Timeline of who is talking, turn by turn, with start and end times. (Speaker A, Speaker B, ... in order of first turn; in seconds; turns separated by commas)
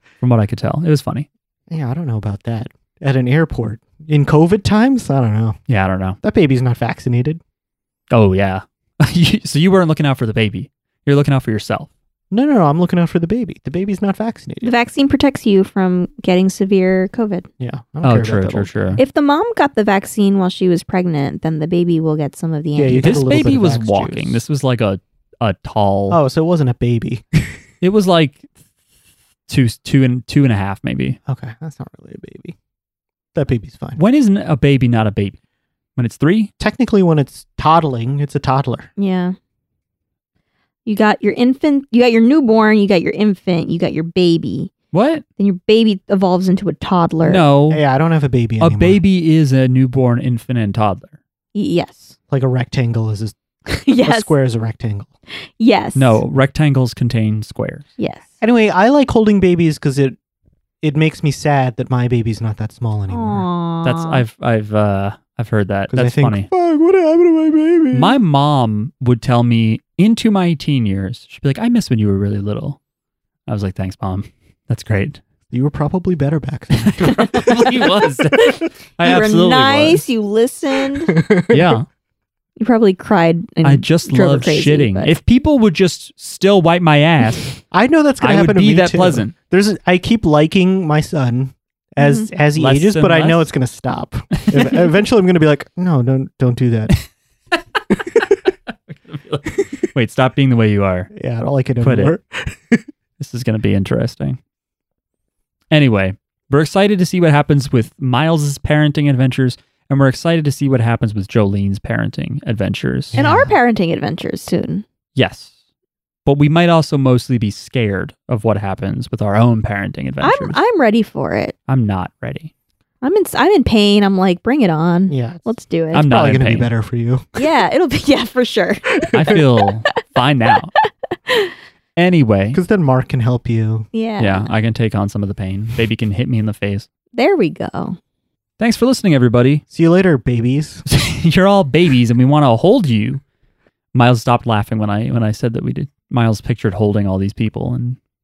Speaker A: 0.2-1.3, Speaker B: 1.7-5.6, Speaker A: 5.7-6.2, Speaker B: 6.2-7.4, Speaker A: 8.1-11.9, Speaker B: 12.3-14.7, Speaker C: 14.6-17.5, Speaker B: 17.6-19.0, Speaker A: 18.0-19.0, Speaker C: 19.0-23.4, Speaker B: 22.8-24.4, Speaker A: 23.0-26.2, Speaker B: 26.1-27.4, Speaker A: 27.8-28.4, Speaker A: 29.5-31.2, Speaker B: 31.3-32.5, Speaker B: 33.3-34.0, Speaker A: 34.0-35.4, Speaker A: 36.0-36.5, Speaker B: 36.6-38.9, Speaker C: 39.0-39.4, Speaker C: 40.9-44.7, Speaker A: 44.9-45.2, Speaker C: 45.4-47.4, Speaker A: 47.2-47.8, Speaker B: 47.7-49.0, Speaker A: 48.6-51.1, Speaker C: 51.5-52.2, Speaker B: 52.3-53.4, Speaker C: 53.7-54.3, Speaker B: 54.0-55.1, Speaker C: 55.6-56.2, Speaker A: 56.0-57.9, Speaker C: 58.0-58.3, Speaker B: 58.4-60.2, Speaker B: 60.8-63.5, Speaker C: 63.1-64.2, Speaker A: 63.8-66.5, Speaker B: 65.9-68.2, Speaker A: 67.9-72.8, Speaker A: 73.5-75.2, Speaker B: 75.5-77.6, Speaker A: 76.7-80.0, Speaker C: 78.4-81.2, Speaker B: 81.1-81.8, Speaker A: 81.5-81.9, Speaker C: 82.6-85.1, Speaker A: 83.6-87.5, Speaker B: 87.7-97.0, Speaker A: 88.2-89.3, Speaker C: 92.0-92.3, Speaker A: 92.5-93.5, Speaker A: 94.4-94.8, Speaker A: 97.5-101.1, Speaker B: 101.1-102.9, Speaker A: 101.8-102.2, Speaker A: 103.2-104.4, Speaker A: 105.7-113.2, Speaker B: 113.1-113.6, Speaker C: 113.2-114.8, Speaker A: 115.2-115.5, Speaker A: 116.3-120.6, Speaker C: 120.2-121.5, Speaker A: 121.7-122.5, Speaker C: 123.0-126.0, Speaker B: 125.1-127.4, Speaker A: 125.9-126.7, Speaker C: 127.4-130.0, Speaker A: 129.1-130.7, Speaker C: 130.8-131.5, Speaker A: 132.0-132.6, Speaker B: 132.5-133.9, Speaker C: 133.9-134.5, Speaker A: 134.2-136.9, Speaker C: 137.1-138.0, Speaker A: 138.6-139.6, Speaker B: 139.7-140.8, Speaker A: 140.9-143.2, Speaker A: 143.9-148.0